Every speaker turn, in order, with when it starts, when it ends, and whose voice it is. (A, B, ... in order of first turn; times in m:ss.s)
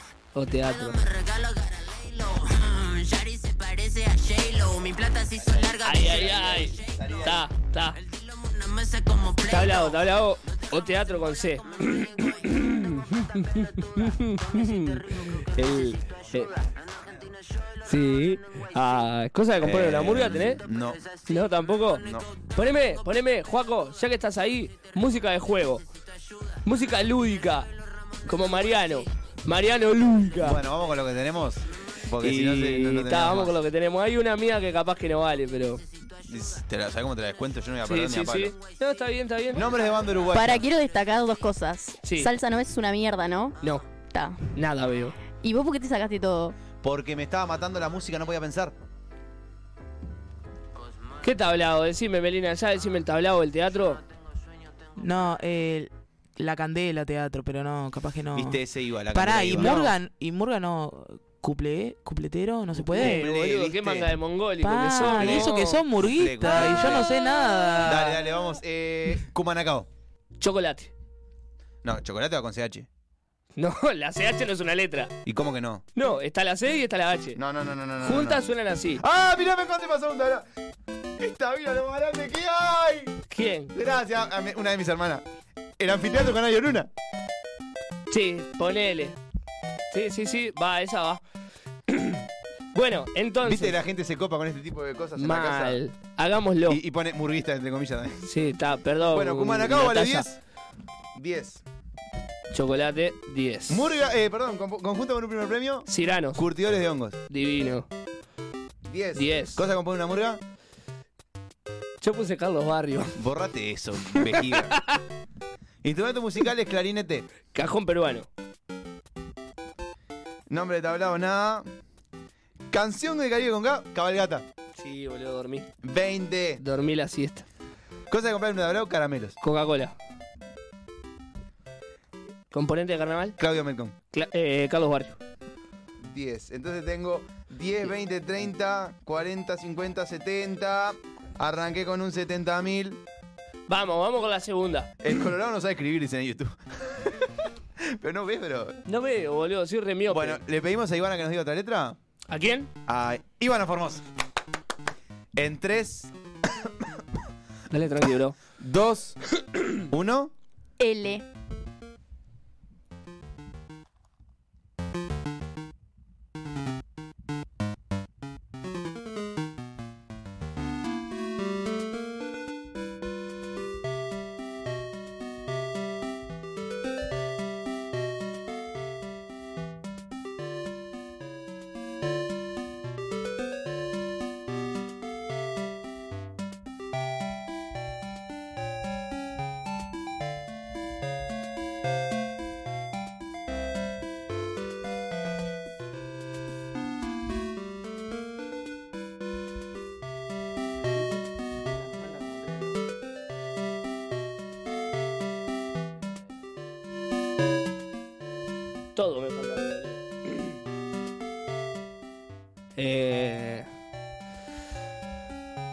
0:00.3-0:01.0 A
0:00.4-0:19.0 B
0:05.4-0:07.4 C
0:05.8-0:08.0 A
0:09.5-0:16.5 A
0:17.9-0:20.6 A
0:19.6-0:21.0 C
0:20.6-0:23.0 B
0:21.3-0:25.8 A
0:22.0-0:22.3 C
0:25.7-0:26.6 B
0:26.6-0:27.7 A
0:28.3-0:30.6 A
0:28.3-0:29.1 B
0:30.4-0:33.6 C
0:32.2-0:35.8 A
0:35.7-0:36.6 B
0:36.2-0:38.6 C
0:37.8-0:39.7 A
0:38.6-0:39.1 B
0:39.5-0:40.7 C
0:40.3-0:43.6 D
0:42.0-0:42.3 A
0:44.1-0:44.6 D
0:44.5-0:45.2 A
0:45.3-0:46.6 D
0:46.8-0:48.8 C
0:51.2-0:54.0 A
0:55.0-1:03.3 E
0:58.3-0:59.9 C
0:59.6-0:59.9 A
1:02.8-1:04.1 C
1:02.9-1:05.9 A
1:04.6-1:08.2 E
1:05.0-1:07.1 C
1:06.5-1:07.0 A
1:07.8-1:09.9 C
1:10.4-1:10.9 A
1:11.8-1:12.9 C
1:13.6-1:15.1 A
1:15.3-1:15.8 C
1:16.0-1:17.4 A
1:17.4-1:18.4 C
1:18.0-1:19.0 A
1:19.0-1:20.4 C
1:21.2-1:23.2 C
1:23.3-1:23.7 A
1:23.7-1:25.2 C
1:25.8-1:26.9 C
1:28.1-1:29.2 A
1:29.9-1:31.2 A
1:31.9-1:33.8 A
1:33.4-1:35.8 C
1:35.2-1:36.8 A
1:36.7-1:38.3 C
1:38.2-1:40.3 A
1:39.1-1:40.4 C
1:41.2-1:41.6 C
1:42.5-1:43.9 A
1:43.7-1:47.2 C
1:45.9-1:46.4 A
1:47.3-1:47.9 A
1:48.8-1:50.4 C
1:49.2-1:49.6 A
1:52.0-1:53.2 A
1:53.2-1:54.8 C
1:54.1-1:55.0 A
1:55.8-1:57.3 C
1:57.5-1:58.3 A
2:00.5-2:01.7 C
2:02.7-2:04.4 C
2:04.8-2:05.7 A
2:05.8-2:06.6 C
2:06.6-2:07.5 A
2:08.1-2:09.4 C
2:09.4-2:10.0 A
2:12.5-2:13.4 A
2:13.4-2:14.0 C
2:14.1-2:15.2 A
2:16.0-2:23.0 C
2:23.7-2:25.1 A
2:25.0-2:27.2 C
2:27.8-2:28.8 C
2:28.9-2:30.4 A
2:30.1-2:32.0 C
2:32.3-2:32.7 A
2:32.9-2:34.0 C
2:35.4-2:36.9 C
2:37.7-2:38.4 A
2:38.6-2:39.2 C
2:39.9-2:40.3 C
2:40.8-2:41.2 D
3:29.0-3:30.6 A
3:32.8-3:33.7 A